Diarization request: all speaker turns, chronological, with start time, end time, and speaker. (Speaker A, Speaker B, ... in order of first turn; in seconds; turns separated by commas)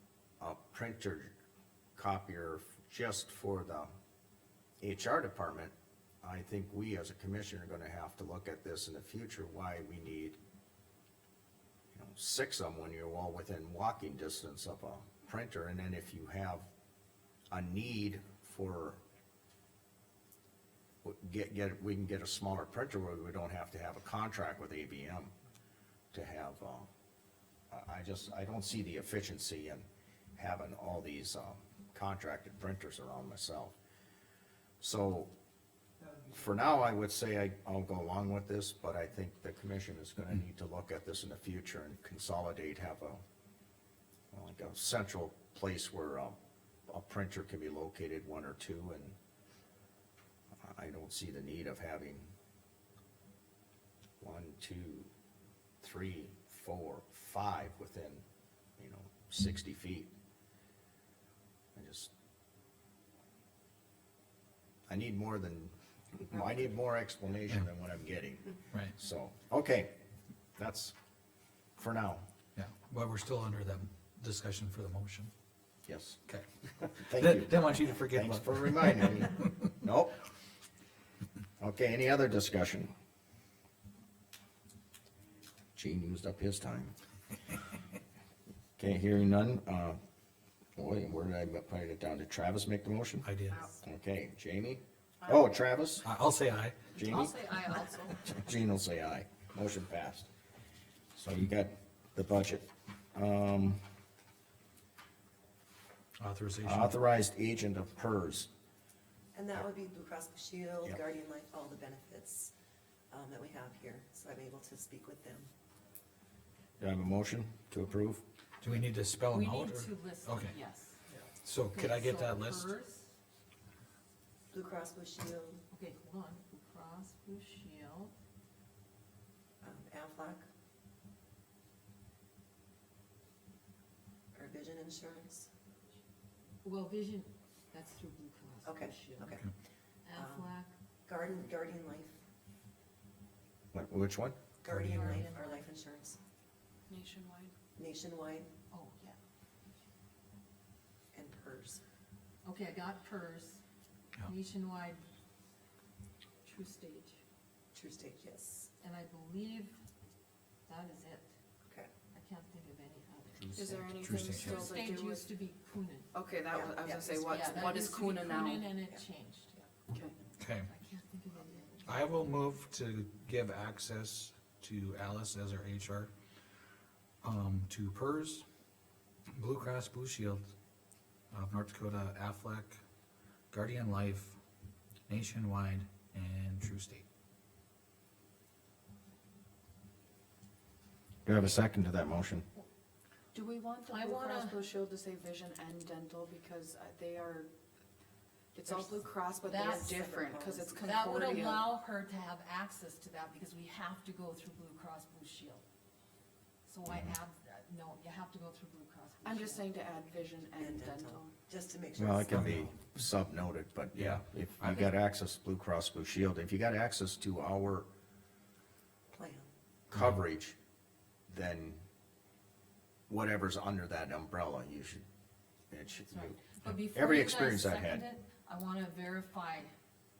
Speaker A: 0.4-1.3, Speaker A: 2.0-3.9, Speaker A: 4.8-10.4, Speaker A: 11.9-16.7, Speaker A: 17.5-19.0, Speaker A: 21.0-25.3, Speaker A: 26.1-26.9, Speaker A: 27.7-33.8, Speaker A: 34.8-35.3, Speaker A: 36.3-43.2, Speaker A: 44.3-46.4, Speaker A: 46.9-49.2, Speaker A: 50.6-52.3, Speaker A: 54.2-55.1, Speaker A: 55.8-58.2, Speaker A: 58.8-60.1, Speaker A: 61.8-62.1, Speaker A: 64.9-70.0, Speaker A: 70.6-71.0, Speaker A: 71.8-72.2, Speaker B: 72.6-75.3, Speaker A: 75.9-76.2, Speaker B: 76.3-79.2, Speaker A: 76.9-80.2, Speaker A: 81.6-82.9, Speaker A: 85.8-86.9, Speaker A: 88.8-90.0, Speaker A: 90.8-96.1, Speaker B: 93.2-93.6, Speaker B: 96.0-96.9, Speaker A: 96.9-100.3, Speaker C: 97.2-98.1, Speaker A: 101.2-103.8, Speaker B: 106.2-107.0, Speaker A: 106.6-108.5, Speaker D: 109.3-112.5, Speaker D: 113.1-115.5, Speaker A: 116.8-118.2, Speaker B: 118.6-120.6, Speaker E: 119.3-121.0, Speaker B: 121.4-122.7, Speaker E: 121.7-123.1, Speaker D: 124.5-125.6, Speaker E: 125.7-128.1, Speaker D: 129.6-130.4, Speaker D: 134.3-135.5, Speaker E: 136.6-139.4, Speaker D: 138.6-139.5, Speaker E: 140.1-140.7, Speaker D: 140.2-142.2, Speaker A: 143.7-144.4, Speaker D: 144.6-146.2, Speaker E: 144.7-145.6, Speaker C: 146.9-147.5, Speaker D: 147.8-148.5, Speaker E: 148.7-149.2, Speaker D: 151.1-151.8, Speaker E: 152.4-153.6, Speaker E: 154.2-155.0, Speaker E: 156.5-157.2, Speaker D: 157.7-158.7, Speaker E: 158.8-159.8, Speaker E: 160.7-161.3, Speaker D: 161.7-161.9, Speaker E: 162.1-166.1, Speaker C: 163.5-165.3, Speaker B: 164.0-164.7, Speaker C: 166.1-168.8, Speaker D: 166.5-167.6, Speaker E: 167.2-169.6, Speaker C: 169.9-170.1, Speaker B: 170.4-170.7, Speaker E: 170.7-172.0, Speaker B: 171.8-176.1, Speaker B: 177.2-178.4, Speaker B: 179.3-180.5, Speaker B: 181.3-182.8, Speaker B: 183.5-184.4, Speaker B: 185.1-187.1, Speaker A: 191.3-192.4, Speaker C: 193.3-197.5, Speaker E: 193.9-194.7, Speaker C: 198.5-201.7, Speaker E: 199.4-199.9, Speaker D: 199.5-201.0, Speaker E: 200.8-205.6, Speaker E: 206.7-209.7, Speaker C: 209.2-211.3, Speaker D: 210.6-212.7, Speaker A: 212.0-217.9, Speaker B: 212.3-212.7, Speaker B: 213.9-214.2, Speaker E: 214.6-214.9, Speaker D: 219.1-219.5, Speaker A: 219.9-220.6, Speaker A: 221.3-221.8, Speaker A: 223.1-225.1, Speaker A: 225.7-228.1, Speaker E: 226.1-229.7